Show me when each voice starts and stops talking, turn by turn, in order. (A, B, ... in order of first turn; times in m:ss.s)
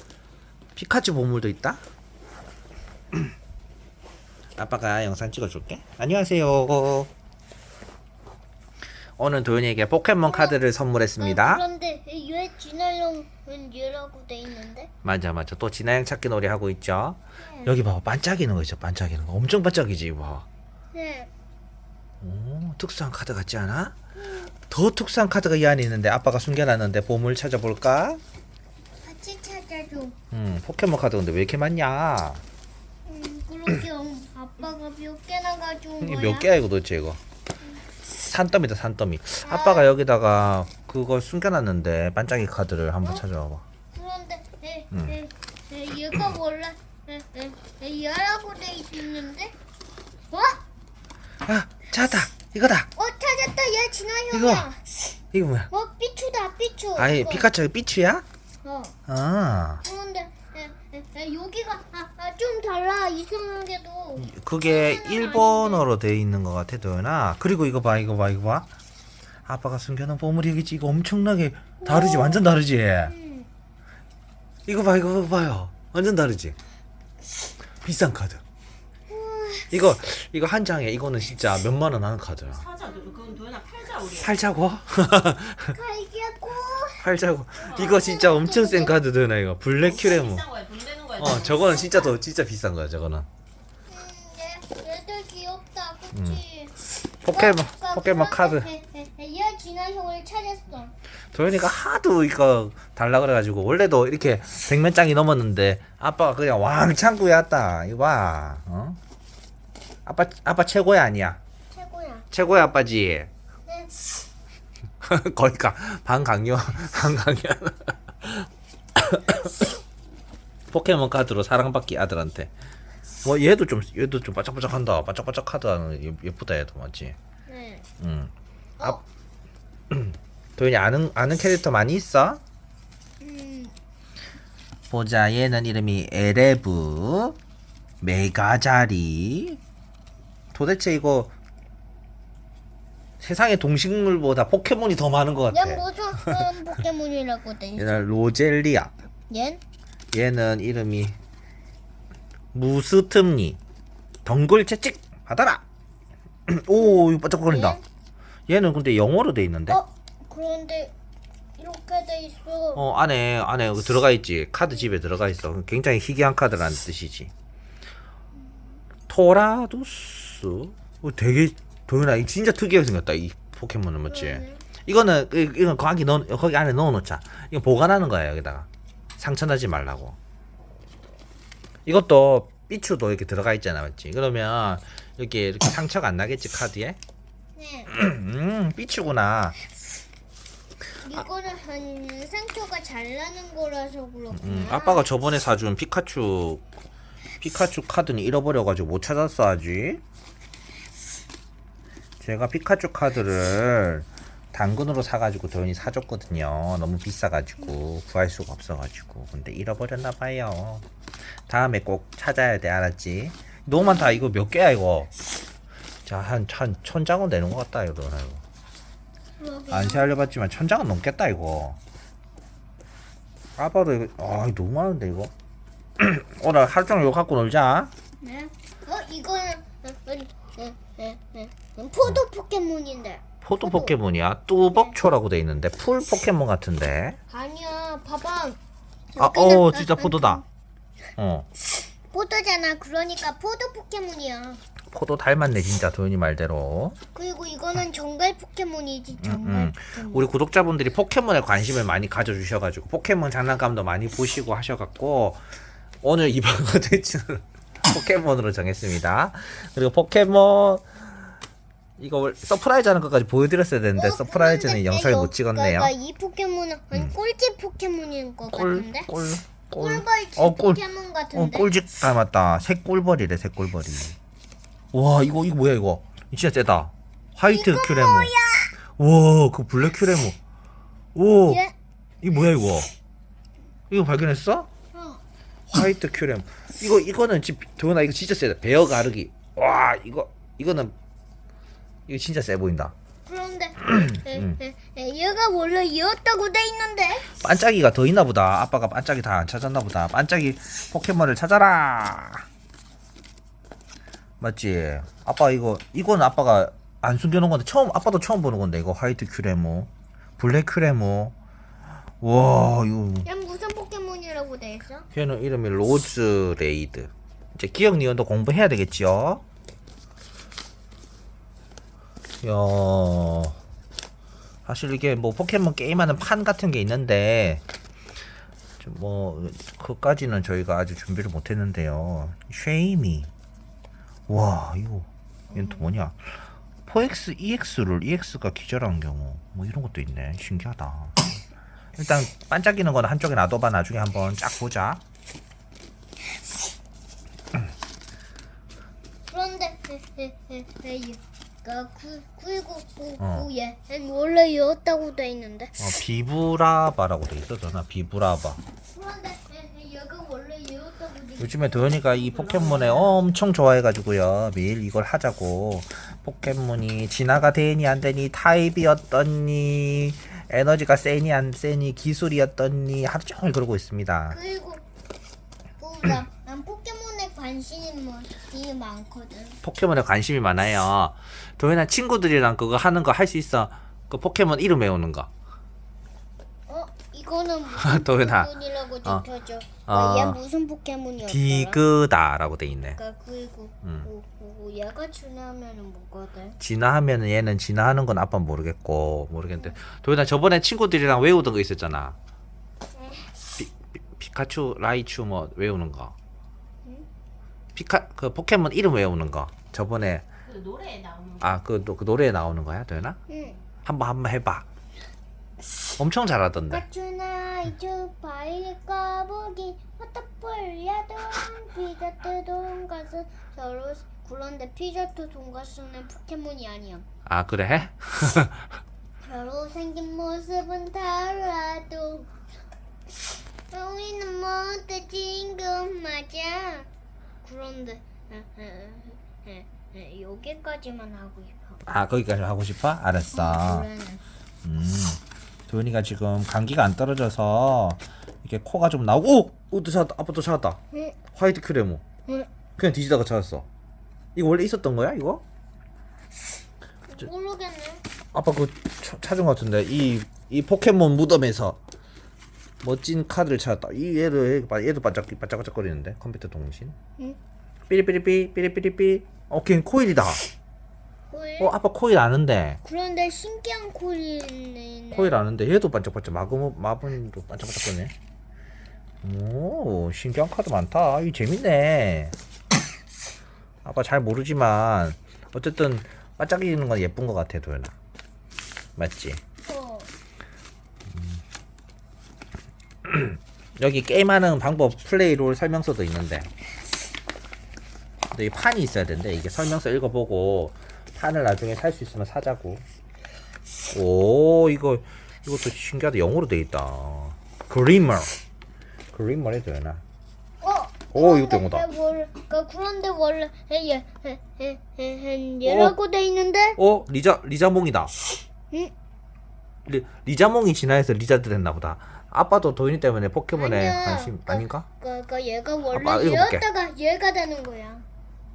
0:00.8-0:01.8 A
0:04.6-0:07.1 A
0:09.2-0:11.6 A
0:10.3-0:10.6 B
0:11.2-0:14.9 B
0:15.0-0:20.5 A
0:17.5-0:17.7 B
0:20.9-0:21.3 B
0:22.2-0:24.0 A
0:24.2-0:24.5 B
0:24.7-0:28.2 A
0:29.0-0:30.2 B
0:30.3-0:32.4 A
0:33.1-0:36.5 B
0:36.0-0:37.2 A
0:38.2-0:43.6 A
0:39.4-0:39.9 B
0:43.9-0:49.6 B
0:44.9-0:45.2 A
0:50.3-0:50.6 B
0:51.4-0:52.9 A
0:53.0-0:54.9 B
0:54.3-0:54.7 A
0:55.3-0:55.7 A
0:55.7-0:57.5 B
0:57.0-0:58.2 A
0:58.6-0:59.0 B
0:59.1-0:59.8 A
0:59.8-1:05.9 B
1:04.2-1:08.7 A
1:09.5-1:13.1 A
1:11.8-1:12.5 B
1:13.1-1:13.5 B
1:14.7-1:16.6 A
1:17.8-1:18.4 A
1:19.1-1:19.7 B
1:19.7-1:22.7 A
1:22.6-1:24.3 C
1:22.8-1:23.4 B
1:24.1-1:25.8 A
1:25.7-1:27.1 B
1:27.0-1:30.5 A
1:27.6-1:29.0 B
1:30.0-1:31.7 C
1:31.2-1:33.3 A
1:33.9-1:36.8 B
1:36.1-1:36.4 A
1:37.2-1:38.7 A
1:37.3-1:40.9 B
1:41.3-1:49.0 A
1:50.1-1:51.4 A
1:51.7-1:52.3 B
1:52.3-1:53.3 A
1:53.7-1:53.9 B
1:55.0-1:59.5 A
2:00.7-2:02.5 A
2:03.2-2:07.2 A
2:07.5-2:07.8 B
2:08.0-2:09.0 A
2:09.9-2:12.4 A
2:13.2-2:13.8 B
2:14.9-2:17.4 A
2:18.0-2:19.6 A
2:20.5-2:21.3 A
2:23.2-2:26.4 A
2:25.5-2:27.9 B
2:27.8-2:28.9 A
2:29.3-2:29.6 B
2:30.1-2:31.2 A
2:32.5-2:33.6 A
2:34.2-2:35.6 A
2:36.5-2:37.8 A
2:36.8-2:37.8 B
2:38.5-2:39.8 A
2:39.7-2:40.9 B
2:41.6-2:42.9 B
2:42.8-2:47.3 A
2:49.1-3:00.2 A
2:54.1-2:54.6 B
3:01.9-3:07.0 A
3:07.6-3:07.9 B
3:07.9-3:09.6 A
3:11.0-3:15.1 B
3:14.3-3:16.6 A
3:17.4-3:20.0 A
3:22.2-3:30.9 A
3:31.5-3:35.1 A
3:36.1-3:38.4 A
3:39.4-3:40.1 B
3:39.7-3:41.8 A
3:43.6-3:45.3 A
3:46.0-3:47.9 A
3:48.2-3:54.0 B
3:53.4-3:57.2 A
3:54.7-3:55.0 B
3:57.3-3:58.6 B
3:59.1-4:00.4 B
3:59.2-4:00.4 A
4:01.2-4:01.5 A
4:02.1-4:04.6 B
4:04.9-4:07.0 A
4:07.2-4:10.3 B
4:09.2-4:15.4 A
4:16.0-4:21.0 A
4:22.0-4:25.9 A
4:24.0-4:29.1 B
4:28.5-4:30.8 A
4:29.7-4:31.7 B
4:31.3-4:34.2 A
4:34.9-4:38.3 A
4:37.5-4:38.7 B
4:39.0-4:40.4 A
4:41.2-4:41.6 A
4:41.5-4:41.7 B
4:42.2-4:42.9 A
4:43.9-4:44.7 A
4:44.9-4:45.2 B
4:45.7-4:50.9 A
4:52.1-4:52.9 A
4:53.3-4:57.3 B
4:54.2-4:54.6 A
4:57.4-5:02.5 A
5:04.4-5:11.4 A
5:12.2-5:13.3 A
5:13.2-5:15.1 B
5:15.1-5:19.4 A
5:22.4-5:23.6 A
5:24.7-5:27.6 A
5:28.8-5:33.3 A
5:34.3-5:41.2 A
5:35.5-5:35.9 B
5:42.0-5:45.0 A
5:49.3-5:55.8 B
5:53.2-5:53.5 A
5:55.8-5:58.6 A
5:58.9-6:03.0 B
6:01.4-6:14.4 A
6:14.3-6:14.8 B
6:15.8-6:19.6 B
6:19.6-6:25.3 A
6:26.7-6:31.8 B
6:27.8-6:28.5 A
6:29.9-6:30.4 A
6:31.2-6:33.0 A
6:33.0-6:36.6 B
6:33.8-6:34.1 A
6:36.6-6:42.2 A
6:42.9-6:43.3 B
6:43.6-6:46.2 A
6:47.8-6:50.3 A
6:50.4-6:51.5 C
6:51.4-6:53.2 A
6:53.3-6:53.6 B
6:53.8-6:54.6 A
6:56.0-6:56.8 A
6:56.7-7:07.1 B
7:07.3-7:08.7 A
7:09.2-7:12.3 B
7:13.7-7:16.9 B
7:17.4-7:21.8 B
7:21.9-7:23.9 A
7:23.3-7:24.2 B
7:24.6-7:30.8 A
7:30.9-7:31.2 B
7:31.3-7:32.0 A
7:32.8-7:33.7 A
7:34.4-7:35.4 A
7:37.1-7:38.0 B
7:38.3-7:41.8 A
7:42.8-7:47.0 A
7:47.9-7:50.4 A
7:51.3-7:51.7 B
7:51.6-7:52.8 A
7:52.8-7:55.5 B
7:55.1-7:58.1 A
7:59.2-8:02.4 A
8:03.8-8:08.0 A
8:09.0-8:09.4 A
8:09.6-8:10.1 B
8:11.1-8:11.4 A
8:13.0-8:16.5 A
8:18.3-8:22.8 A
8:23.9-8:28.3 A
8:29.1-8:30.0 A
8:30.6-8:36.8 B
8:31.1-8:31.8 A
8:35.6-8:35.9 A
8:36.8-8:38.1 A
8:39.9-8:44.9 A
8:43.5-8:48.0 B
8:45.9-8:46.6 A